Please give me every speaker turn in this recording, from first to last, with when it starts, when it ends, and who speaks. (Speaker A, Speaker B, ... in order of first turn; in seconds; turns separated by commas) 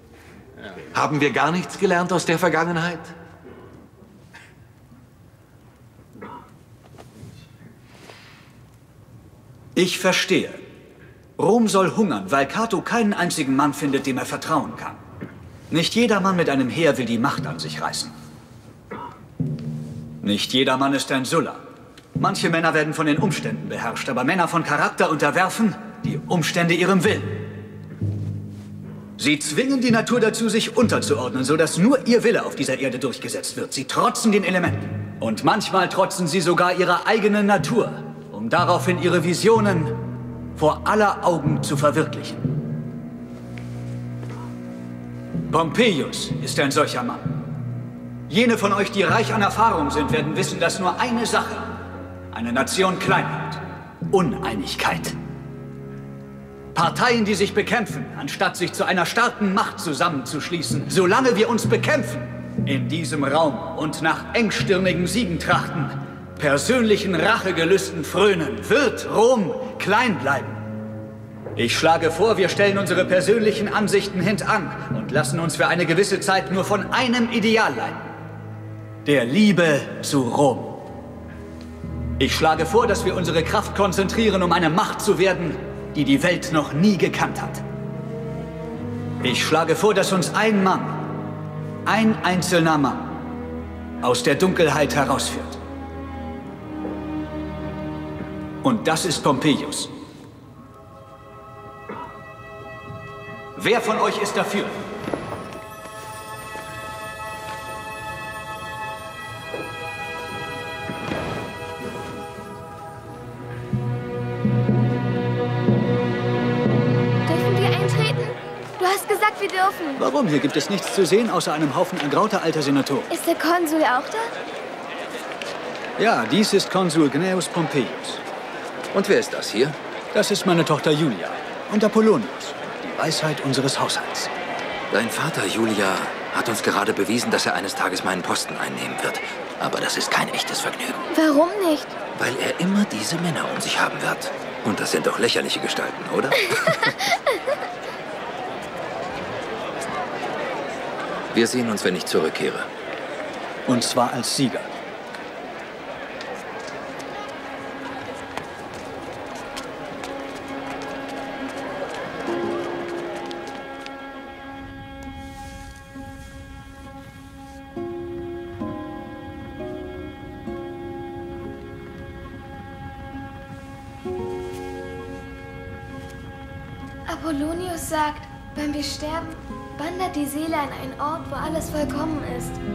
Speaker A: 0.9-3.1, Speaker B: 9.8-10.6, Speaker B: 11.4-15.0, Speaker B: 15.7-18.1, Speaker B: 20.2-21.6, Speaker B: 22.2-27.4, Speaker B: 29.2-40.0, Speaker B: 40.6-42.5, Speaker B: 45.5-47.4, Speaker B: 48.3-51.8, Speaker B: 52.3-55.2, Speaker B: 56.7-70.6, Speaker B: 71.6-78.1, Speaker B: 79.0-80.9, Speaker B: 82.2-87.6, Speaker B: 89.2-91.1, Speaker B: 91.9-93.2, Speaker B: 94.0-95.6, Speaker B: 98.6-99.9, Speaker B: 103.6-104.8, Speaker C: 117.2-120.0, Speaker B: 120.0-123.1, Speaker C: 123.1-124.3, Speaker B: 126.0-128.2, Speaker D: 128.9-129.8, Speaker B: 130.1-134.3, Speaker D: 134.9-141.0, Speaker C: 141.1-141.9, Speaker D: 142.2-146.9, Speaker D: 151.3-152.7, Speaker B: 153.7-154.7, Speaker C: 177.1-182.6